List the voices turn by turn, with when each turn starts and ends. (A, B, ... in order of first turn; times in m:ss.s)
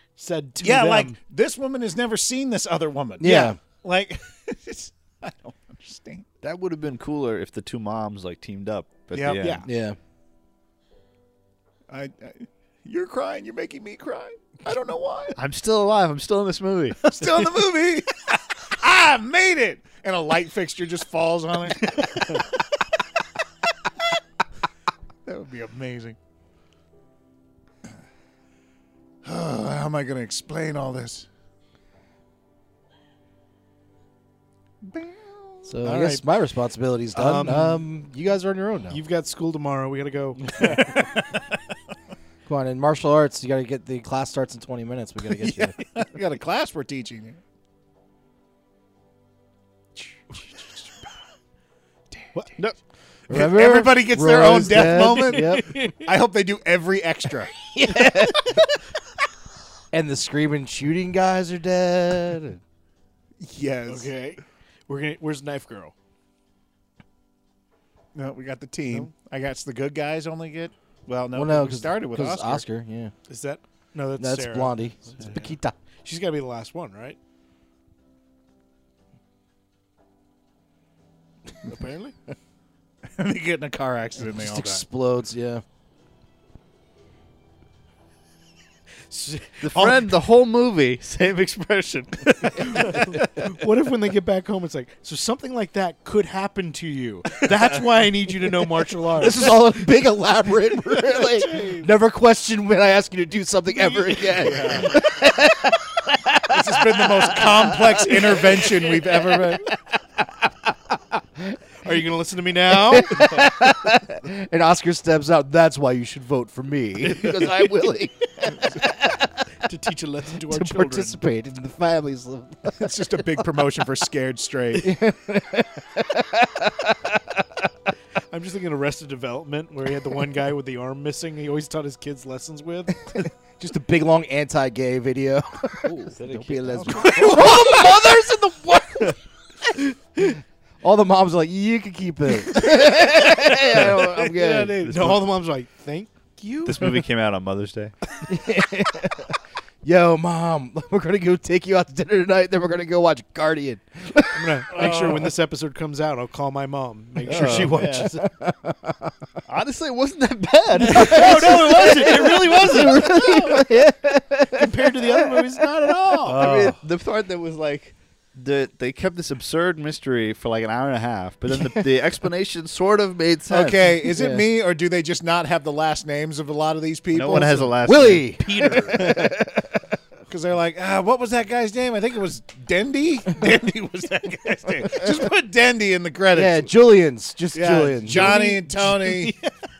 0:00.2-0:01.2 A
0:00.6-0:06.2 B
0:03.2-0:03.6 C
0:06.4-0:09.7 D
0:09.1-0:09.4 B
0:09.4-0:09.7 A
0:09.6-0:10.0 C
0:11.9-0:15.4 B
0:15.3-0:17.2 D
0:17.1-0:22.4 B
0:25.2-0:26.2 B
0:29.2-0:31.3 B
0:34.8-0:35.6 B
0:35.6-0:39.0 C
0:35.8-0:36.2 A
0:37.1-0:37.8 A
0:38.9-0:40.9 A
0:42.4-0:45.8 C
0:45.4-0:47.4 B
0:52.3-0:52.8 A
0:53.3-0:55.8 C
0:53.3-0:57.5 B
0:54.9-0:56.1 A
0:57.7-0:58.6 C
0:57.8-0:58.6 A
0:59.9-1:02.6 C
1:03.4-1:04.1 B
1:03.9-1:05.9 A
1:08.1-1:12.6 B
1:11.3-1:13.1 C
1:13.3-1:17.2 A
1:14.2-1:15.7 C
1:21.6-1:22.2 A
1:23.2-1:24.8 B
1:24.2-1:25.6 C
1:29.1-1:30.1 A
1:29.6-1:33.5 D
1:32.5-1:39.7 A
1:39.1-1:49.6 C
1:41.2-1:41.9 B
1:43.7-1:44.8 A
1:44.4-1:45.0 B
1:46.5-1:49.7 B
1:51.4-1:52.0 C
1:51.8-1:53.4 A
1:52.7-1:59.5 C
1:57.0-1:57.7 D
1:59.6-2:01.2 A
2:00.4-2:03.2 C
2:02.8-2:05.0 B
2:04.7-2:07.3 C
2:08.3-2:13.1 A
2:13.2-2:18.2 C
2:15.8-2:17.2 D
2:16.8-2:17.7 B
2:16.9-2:19.2 A
2:19.7-2:24.9 C
2:23.7-2:24.2 D
2:23.7-2:27.0 A
2:24.8-2:25.2 D
2:26.6-2:27.9 D
2:28.3-2:34.6 C
2:34.3-2:38.2 A
2:34.7-2:35.3 B
2:37.2-2:38.1 D
2:37.2-2:39.2 C
2:39.4-2:43.5 D
2:40.8-2:46.4 C
2:40.8-2:43.7 A
2:44.5-2:46.5 A
2:46.2-2:53.8 D
2:46.4-2:46.8 B
2:51.6-2:51.8 C
2:53.5-2:54.5 C
2:53.5-2:57.7 B
2:57.1-2:58.3 D
2:57.8-2:59.4 C
2:58.3-2:59.1 A
2:58.9-2:59.4 B
3:00.3-3:06.7 B
3:06.3-3:08.5 C
3:07.5-3:09.4 B
3:08.1-3:09.5 A